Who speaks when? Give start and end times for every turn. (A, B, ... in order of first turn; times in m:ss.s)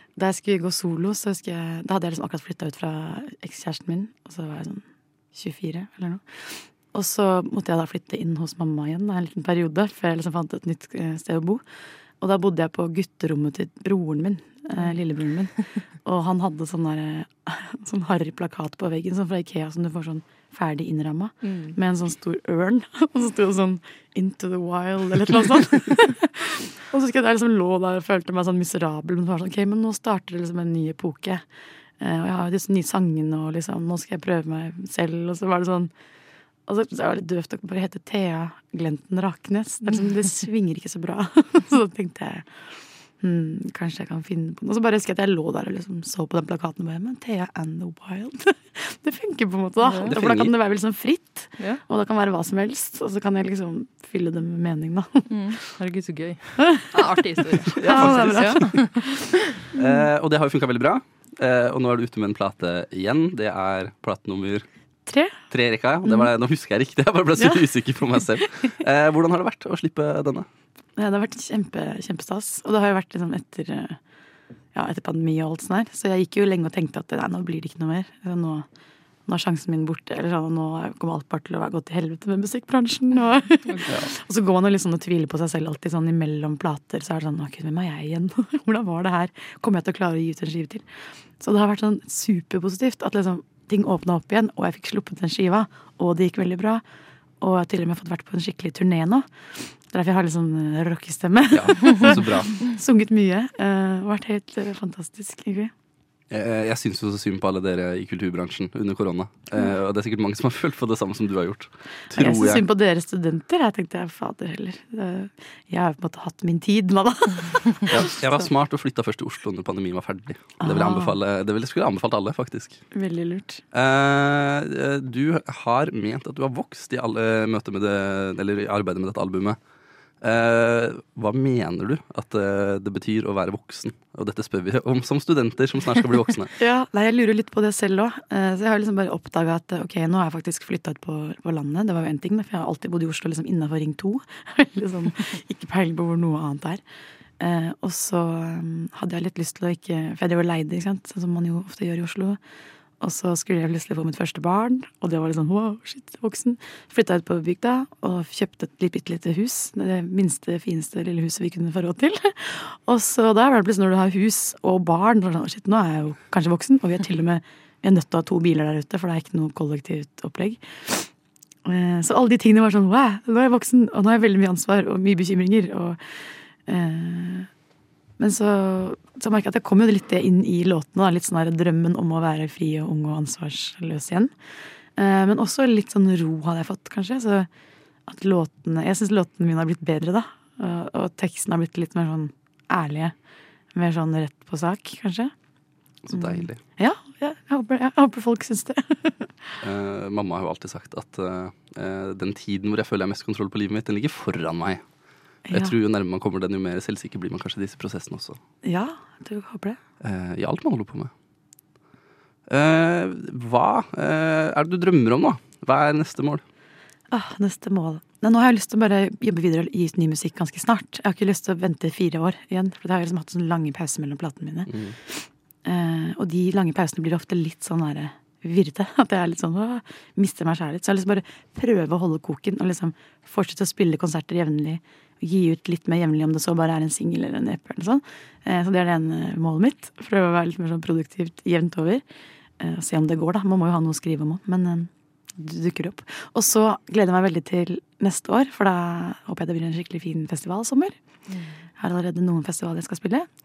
0:00.2-0:11.6 A
0:12.2-0:31.4 A
0:21.4-0:21.8 B
0:32.0-0:35.9 A
0:36.7-0:42.6 A
0:43.2-0:55.6 A
0:49.8-0:50.1 B
0:50.1-0:50.5 C
0:55.3-0:59.7 B
0:56.6-1:00.1 A
0:57.8-0:58.8 C
0:59.8-1:04.6 C
1:05.1-1:05.4 A
1:05.5-1:10.5 C
1:07.4-1:07.6 A
1:11.0-1:14.0 A
1:14.7-1:18.7 A
1:19.3-1:30.9 A
1:31.4-1:36.8 A
1:37.4-1:45.7 A
1:41.5-1:42.6 C
1:46.3-1:52.6 C
1:52.1-1:58.3 A
1:57.9-2:02.8 C
2:00.6-2:01.2 A
2:02.9-2:03.6 A
2:03.7-2:09.6 C
2:10.2-2:16.5 C
2:16.6-2:26.8 A
2:27.4-2:32.4 A
2:33.0-2:51.1 A
2:51.6-2:57.5 A
2:58.2-3:04.3 A
3:05.0-3:07.5 A
3:08.1-3:13.2 A
3:13.7-3:15.3 A
3:16.1-3:16.6 C
3:16.1-3:19.6 A
3:19.6-3:24.8 C
3:25.5-3:25.8 A
3:25.5-3:28.4 C
3:28.6-3:29.8 A
3:30.0-3:31.1 C
3:32.5-3:36.4 C
3:37.1-4:02.0 A
3:44.7-3:45.0 C
4:02.6-4:11.0 A
4:11.8-4:13.3 A